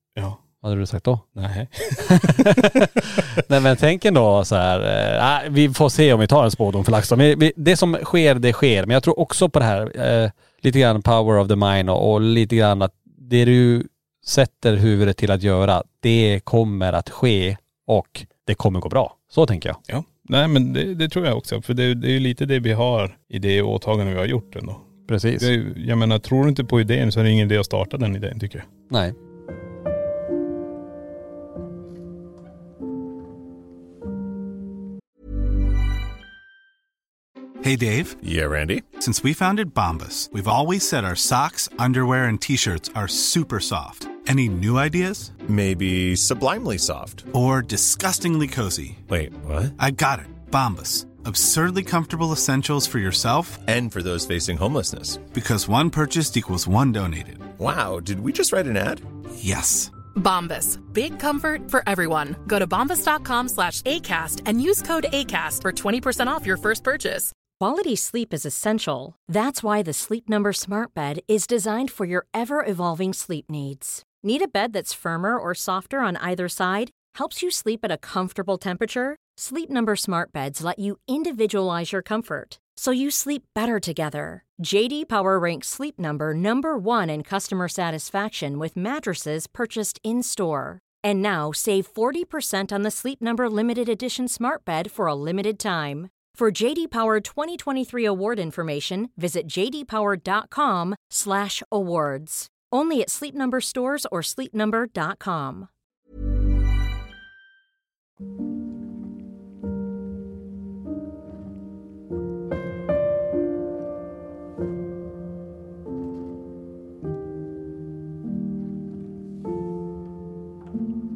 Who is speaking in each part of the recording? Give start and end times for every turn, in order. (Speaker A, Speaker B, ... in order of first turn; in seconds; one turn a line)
Speaker A: 0.6-1.2
Speaker B: 1.3-2.9
Speaker A: 2.0-19.8
Speaker B: 19.9-24.8
Speaker A: 25.1-25.5
Speaker B: 25.4-28.7
Speaker A: 28.9-29.1
Speaker C: 37.6-38.2
Speaker D: 38.2-38.9
Speaker C: 38.9-45.4
Speaker D: 45.4-47.3
Speaker C: 47.3-49.0
Speaker D: 49.1-49.7
Speaker C: 49.8-53.6
Speaker D: 53.6-55.2
Speaker C: 55.3-57.5
Speaker D: 57.5-59.0
Speaker C: 59.4-59.9
Speaker E: 60.1-67.3
Speaker F: 67.6-105.7